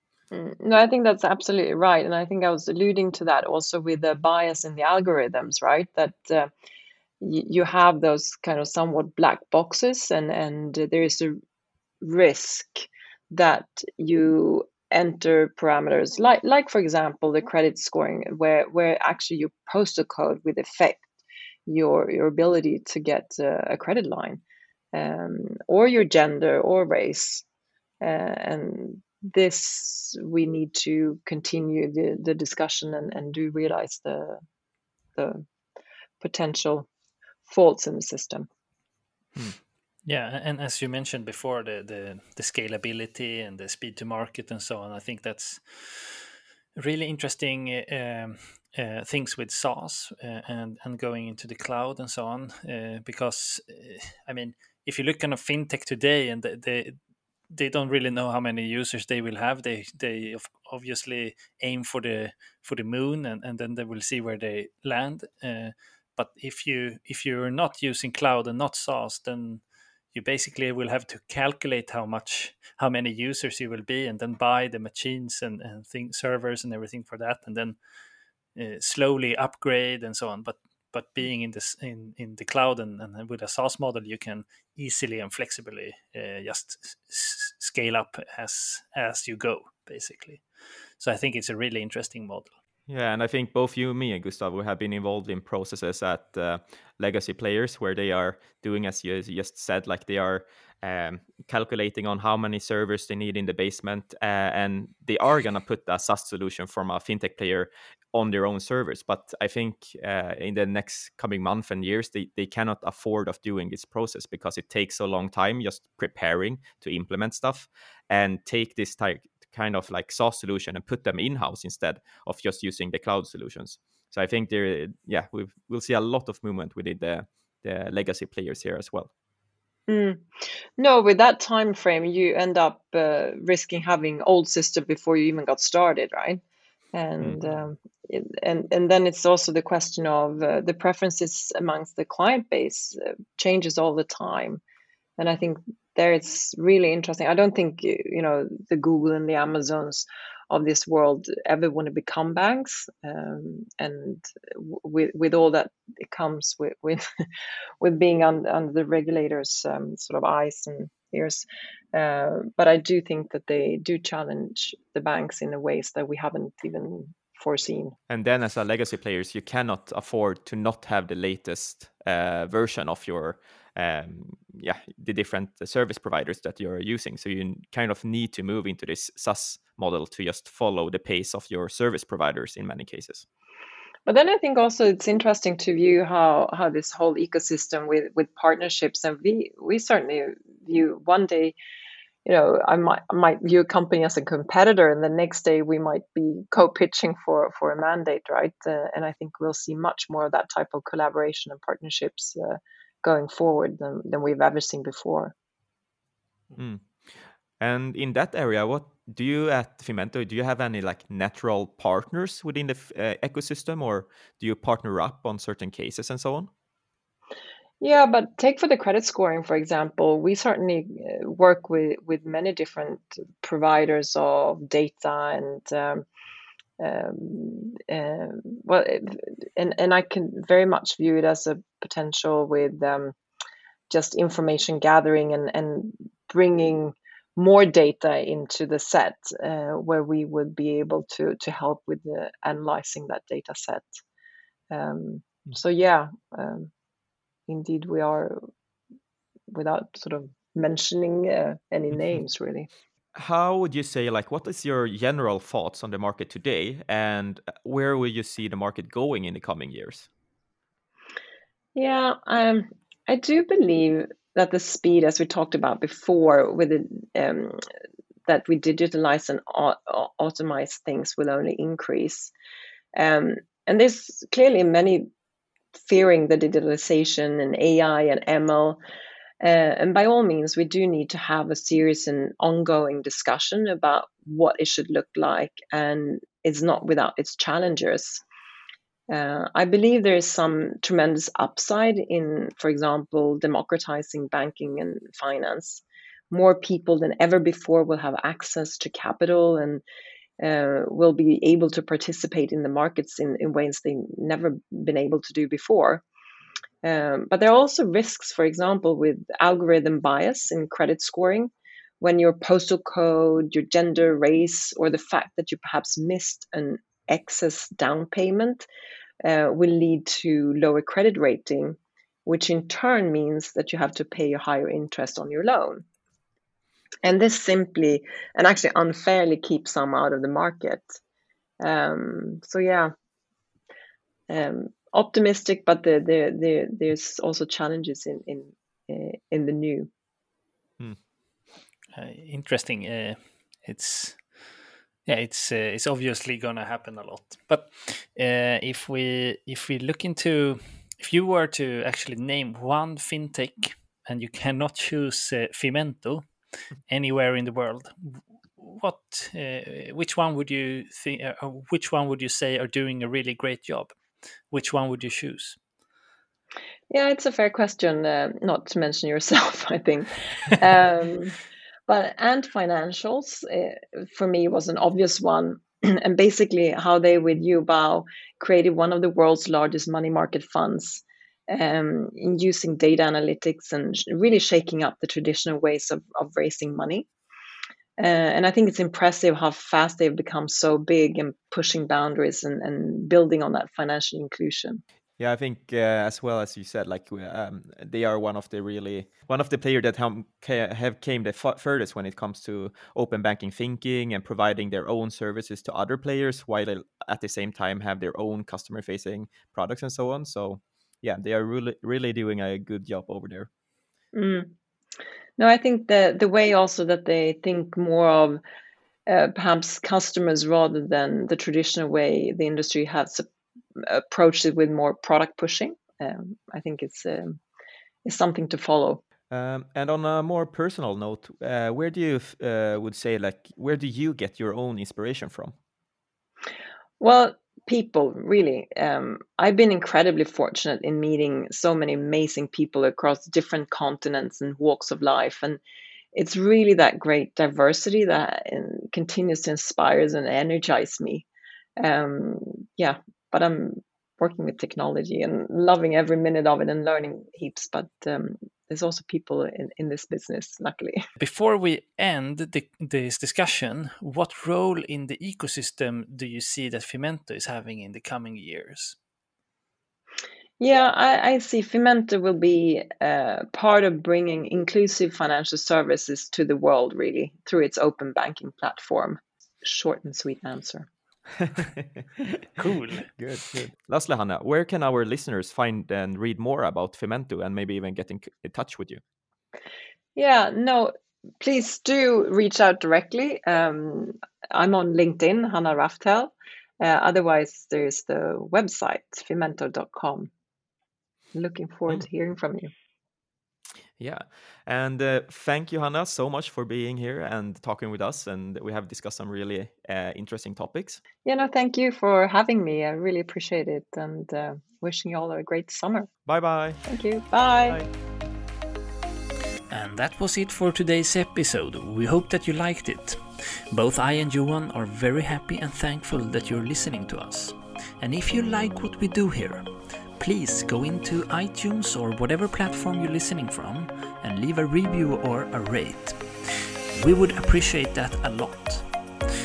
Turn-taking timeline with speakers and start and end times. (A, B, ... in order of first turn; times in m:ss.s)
0:00.3-0:06.5 A
0:07.2-0:11.4 A
0:12.0-0:21.0 A
0:21.7-0:24.4 A
0:24.9-0:27.4 A
0:28.0-0:34.4 A
0:35.2-0:35.4 A
0:36.2-0:36.9 A
0:37.4-0:38.5 A
0:40.0-0:57.0 B
0:57.5-1:17.8 B
1:18.6-1:30.4 B
1:31.0-1:32.5 B
1:32.9-2:09.1 C
2:09.9-2:10.2 A
2:10.8-2:16.4 A
2:16.9-2:24.6 A
2:17.2-2:17.5 C
2:25.2-2:37.0 A
2:37.8-2:48.0 A
2:48.1-3:03.2 C
3:04.0-3:11.6 A
3:12.2-3:25.3 A
3:26.6-3:36.5 C
3:37.8-3:46.0 A
3:46.8-3:53.1 A
3:53.9-4:03.8 A
4:04.7-4:06.7 A
4:07.5-4:08.4 A
4:09.5-4:12.7 A
4:13.1-4:20.1 C
4:21.7-4:27.6 A
4:28.3-4:32.3 A
4:32.9-4:35.1 A
4:35.9-4:38.8 A
4:39.4-4:48.2 A
4:49.1-4:59.8 A
5:00.4-5:06.0 A
5:06.8-5:18.6 A
5:19.2-5:25.8 A
5:27.0-5:31.0 A
5:31.6-5:32.9 A
5:34.3-5:39.9 A
5:41.9-5:44.2 B
5:45.0-5:56.3 B
5:56.8-6:04.0 B
6:04.5-6:05.6 B
6:06.9-6:11.4 A
6:11.9-6:27.1 A
6:28.0-6:34.8 A
6:35.2-6:53.5 C
6:54.1-6:54.5 A
6:55.4-6:58.4 A
6:59.1-7:07.4 A
7:08.0-7:09.0 A
7:09.3-7:15.5 C
7:17.0-7:25.6 A
7:26.1-7:31.3 A
7:31.8-7:41.0 A
7:41.2-7:49.0 B
7:50.6-8:00.9 A
8:01.4-8:02.4 C
8:02.6-8:03.1 B
8:03.2-8:09.0 C
8:10.2-8:20.3 A
8:21.3-8:22.7 A
8:24.0-8:31.0 C
8:31.2-8:36.1 A
8:36.2-8:36.8 C
8:36.8-8:37.8 A
8:39.7-8:58.9 B